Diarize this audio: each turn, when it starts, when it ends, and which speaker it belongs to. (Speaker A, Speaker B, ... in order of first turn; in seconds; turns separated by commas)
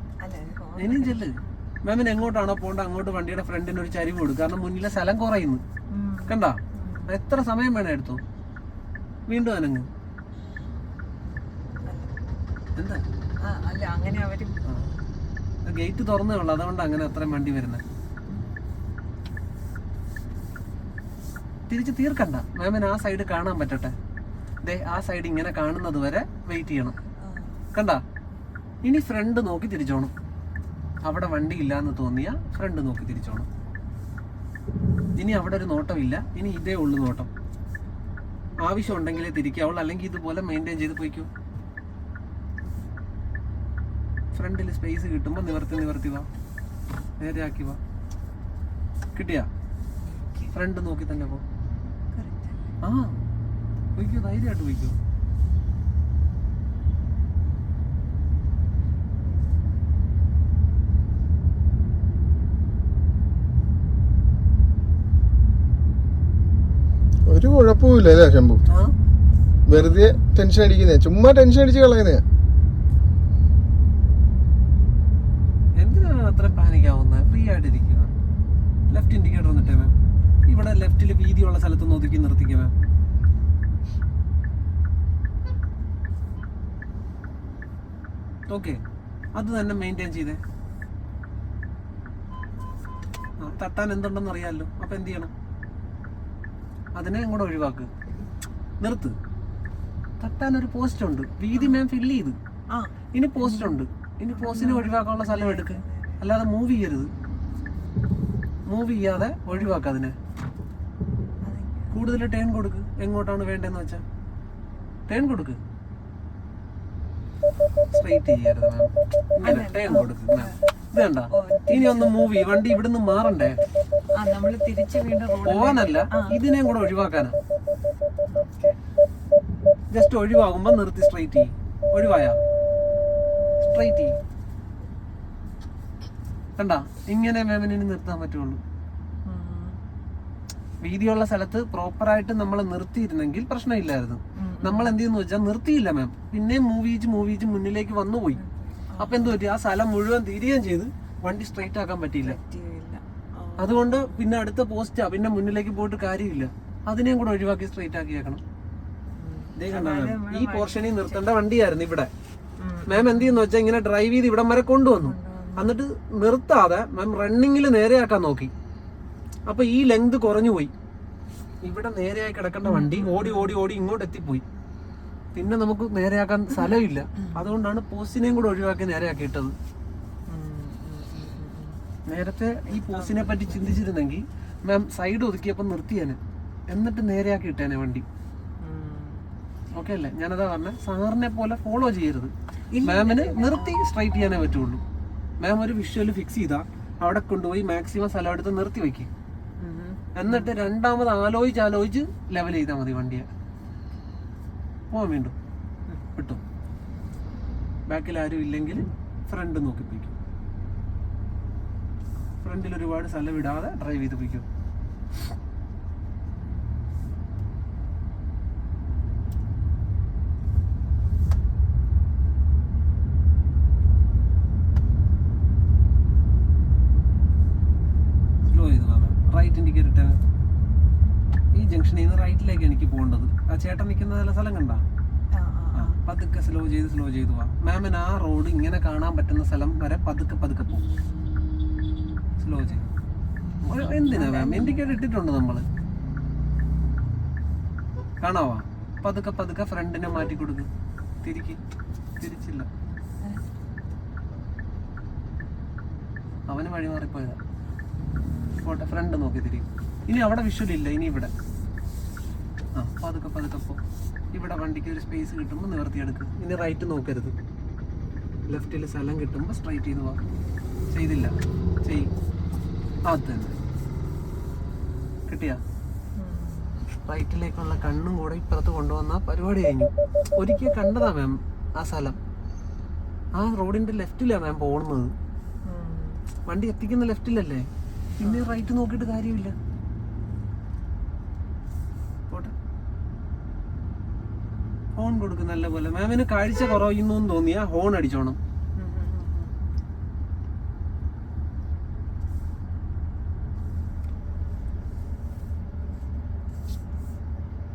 Speaker A: 0.2-1.2, Speaker B: 0.8-5.6, Speaker A: 5.9-7.2, Speaker B: 6.3-8.2, Speaker B: 9.3-9.9, Speaker A: 11.8-12.6, Speaker B: 12.8-13.0, Speaker A: 13.4-14.7, Speaker B: 14.6-14.9, Speaker B: 15.7-17.8, Speaker B: 21.7-23.9, Speaker B: 24.6-26.9, Speaker A: 27.2-27.6, Speaker B: 27.7-28.0, Speaker B: 28.8-30.1, Speaker B: 31.0-33.5, Speaker B: 35.2-37.3, Speaker B: 38.6-41.3, Speaker B: 44.3-46.3, Speaker B: 47.2-47.8, Speaker B: 49.1-49.5, Speaker A: 50.0-50.5, Speaker B: 50.5-51.4, Speaker A: 52.1-52.7, Speaker B: 52.8-53.2, Speaker B: 54.0-55.0, Speaker C: 67.3-68.6, Speaker B: 68.7-68.9, Speaker C: 69.7-72.2, Speaker B: 75.8-78.1, Speaker B: 78.9-79.9, Speaker B: 80.5-82.7, Speaker B: 88.5-88.8, Speaker B: 89.3-90.4, Speaker B: 93.4-95.3, Speaker B: 96.9-97.9, Speaker B: 98.8-99.2, Speaker B: 100.2-102.4, Speaker A: 101.5-101.8, Speaker A: 102.7-103.8, Speaker B: 103.1-107.1, Speaker A: 104.3-106.2, Speaker B: 108.7-110.2, Speaker A: 109.5-109.8, Speaker A: 111.4-112.0, Speaker B: 111.9-114.0, Speaker B: 115.1-115.6, Speaker B: 117.9-123.6, Speaker A: 119.4-122.1, Speaker A: 124.2-126.4, Speaker B: 125.4-127.3, Speaker A: 128.3-128.8, Speaker B: 129.9-132.4, Speaker B: 133.6-134.2, Speaker B: 136.6-138.6, Speaker A: 139.2-139.8, Speaker B: 140.8-148.4, Speaker A: 144.3-144.9, Speaker A: 148.3-149.3, Speaker B: 149.0-152.4, Speaker A: 152.2-154.3, Speaker B: 153.6-158.4, Speaker A: 159.2-161.3, Speaker B: 159.6-162.1, Speaker A: 162.6-163.4, Speaker B: 162.9-168.5, Speaker A: 165.0-165.8, Speaker B: 169.5-170.7, Speaker B: 171.6-174.4, Speaker A: 172.6-173.6, Speaker B: 175.3-179.5, Speaker A: 176.5-177.5, Speaker A: 180.3-181.8, Speaker B: 182.1-186.2, Speaker A: 182.6-183.8, Speaker B: 186.7-188.0, Speaker A: 188.6-189.8, Speaker B: 189.7-194.8, Speaker A: 192.7-193.8, Speaker B: 195.4-199.1, Speaker A: 199.6-200.6, Speaker B: 200.1-203.3, Speaker B: 204.9-205.3, Speaker B: 206.1-206.4, Speaker B: 207.9-210.1, Speaker B: 212.4-214.4, Speaker B: 228.4-230.2, Speaker B: 231.5-234.8, Speaker A: 235.3-236.0, Speaker B: 235.7-240.9, Speaker B: 242.4-242.8, Speaker A: 242.6-242.9, Speaker B: 243.6-245.7, Speaker A: 243.8-245.0, Speaker B: 248.2-250.7, Speaker B: 251.2-251.6, Speaker B: 252.2-252.7, Speaker B: 256.5-257.4, Speaker B: 258.6-261.3, Speaker B: 262.8-263.8, Speaker B: 264.3-267.3, Speaker B: 268.5-270.2, Speaker B: 270.9-272.1, Speaker B: 273.1-273.5, Speaker B: 275.3-275.6, Speaker A: 276.2-276.8, Speaker B: 277.1-282.2, Speaker B: 283.4-285.1, Speaker A: 285.6-286.2, Speaker B: 286.5-287.7, Speaker A: 288.2-288.5, Speaker B: 288.2-289.5, Speaker B: 295.0-298.4, Speaker A: 298.8-299.5